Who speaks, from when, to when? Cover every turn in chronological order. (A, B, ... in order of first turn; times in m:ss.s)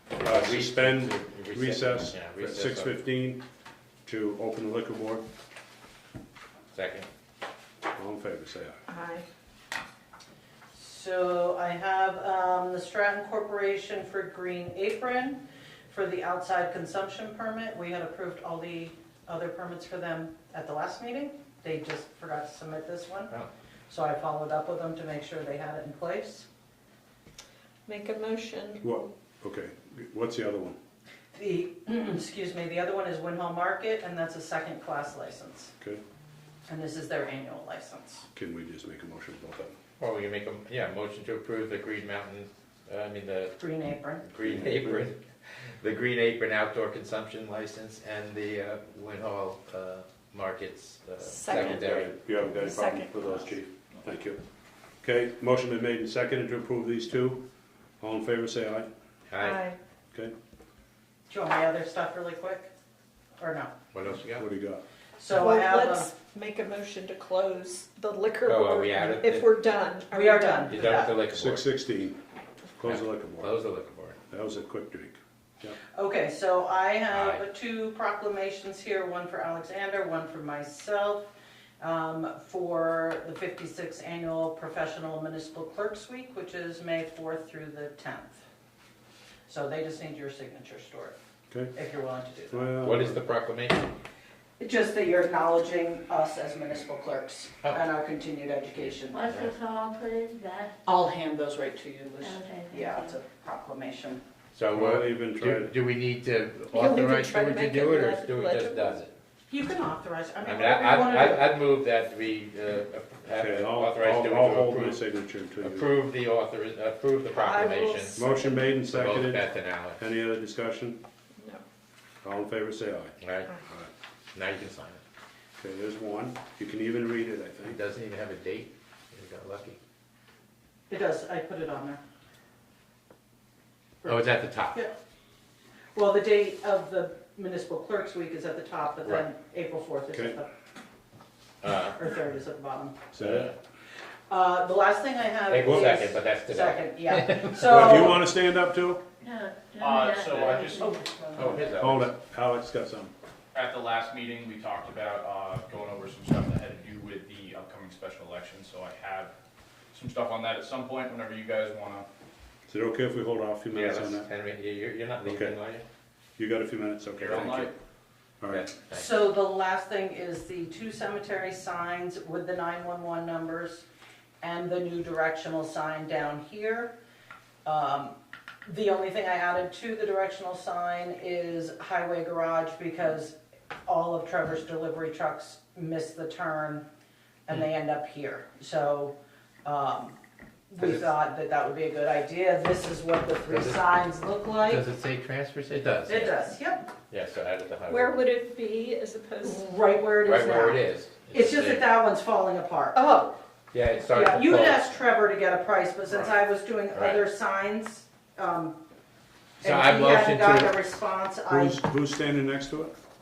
0:00.2-0:02.9 A
0:00.2-0:03.4 B
0:04.0-0:05.2 B
0:06.7-0:07.1 A
0:08.0-0:08.8 B
0:08.9-0:09.3 C
0:10.7-0:23.3 D
0:23.9-0:26.5 D
0:27.9-0:29.0 C
0:28.8-0:30.8 B
0:31.3-0:35.7 D
0:36.7-0:38.3 D
0:38.3-0:39.8 B
0:40.0-0:43.6 A
0:43.6-0:44.2 D
0:44.2-0:45.2 A
0:44.4-0:45.1 B
0:45.8-0:52.1 A
0:51.2-0:53.5 C
0:51.5-0:54.4 B
0:55.0-0:57.4 B
0:58.0-0:58.9 B
0:59.3-0:59.7 A
0:59.4-0:59.8 C
1:01.3-1:02.7 D
1:03.4-1:03.7 D
1:03.9-1:04.4 A
1:04.3-1:04.8 B
1:05.2-1:06.1 D
1:05.3-1:10.8 C
1:08.4-1:09.5 A
1:10.1-1:11.1 D
1:10.7-1:11.7 A
1:11.3-1:12.2 B
1:12.7-1:13.6 B
1:12.8-1:14.2 A
1:14.3-1:15.8 B
1:15.9-1:21.3 D
1:17.1-1:17.4 A
1:21.8-1:28.4 D
1:29.5-1:31.2 D
1:31.7-1:32.7 D
1:32.5-1:33.2 B
1:32.8-1:33.9 A
1:34.6-1:39.4 D
1:38.8-1:39.6 A
1:39.1-1:40.8 E
1:40.8-1:44.2 D
1:42.2-1:43.2 E
1:44.5-1:49.1 A
1:44.7-1:45.7 B
1:46.7-1:49.0 C
1:49.5-1:51.5 D
1:50.4-1:55.0 A
1:53.3-1:55.9 B
1:55.6-2:00.0 A
1:57.4-1:58.4 C
1:58.2-1:59.4 B
2:00.0-2:01.0 B
2:02.2-2:03.1 B
2:03.2-2:03.5 A
2:03.6-2:03.9 B
2:04.3-2:05.0 A
2:05.6-2:07.8 B
2:07.6-2:09.8 A
2:10.9-2:12.0 D
2:14.0-2:15.0 D
2:14.0-2:14.8 A
2:16.0-2:20.5 D
2:20.1-2:20.4 B
2:21.6-2:22.0 A
2:22.0-2:23.0 D
2:23.1-2:23.5 B
2:23.2-2:23.6 A
2:24.3-2:28.2 D
2:25.5-2:28.2 A
2:27.6-2:29.0 B
2:29.2-2:31.8 E
2:29.8-2:31.2 F
2:31.3-2:32.1 A
2:31.6-2:33.1 B
2:33.5-2:39.3 F
2:39.9-2:42.1 F
2:42.7-2:44.3 B
2:43.7-2:45.8 A
2:45.2-2:45.6 B
2:46.4-2:47.7 B
2:47.2-2:47.5 A
2:47.2-2:47.7 F
2:48.4-2:48.7 B
2:48.5-2:49.2 A
2:48.9-2:53.9 D
2:54.4-2:56.9 D
2:57.6-3:06.9 D
3:07.5-3:10.2 D
3:10.7-3:14.8 D
3:10.8-3:11.1 A
3:13.5-3:13.8 A
3:14.6-3:16.4 A
3:16.1-3:16.9 D
3:17.1-3:18.2 A
3:17.9-3:19.7 C
3:19.4-3:23.3 D
3:20.2-3:21.9 A
3:23.7-3:25.0 A
3:24.1-3:28.8 D
3:26.9-3:27.3 A
3:29.6-3:30.8 A
3:29.6-3:31.8 D
3:31.5-3:32.9 B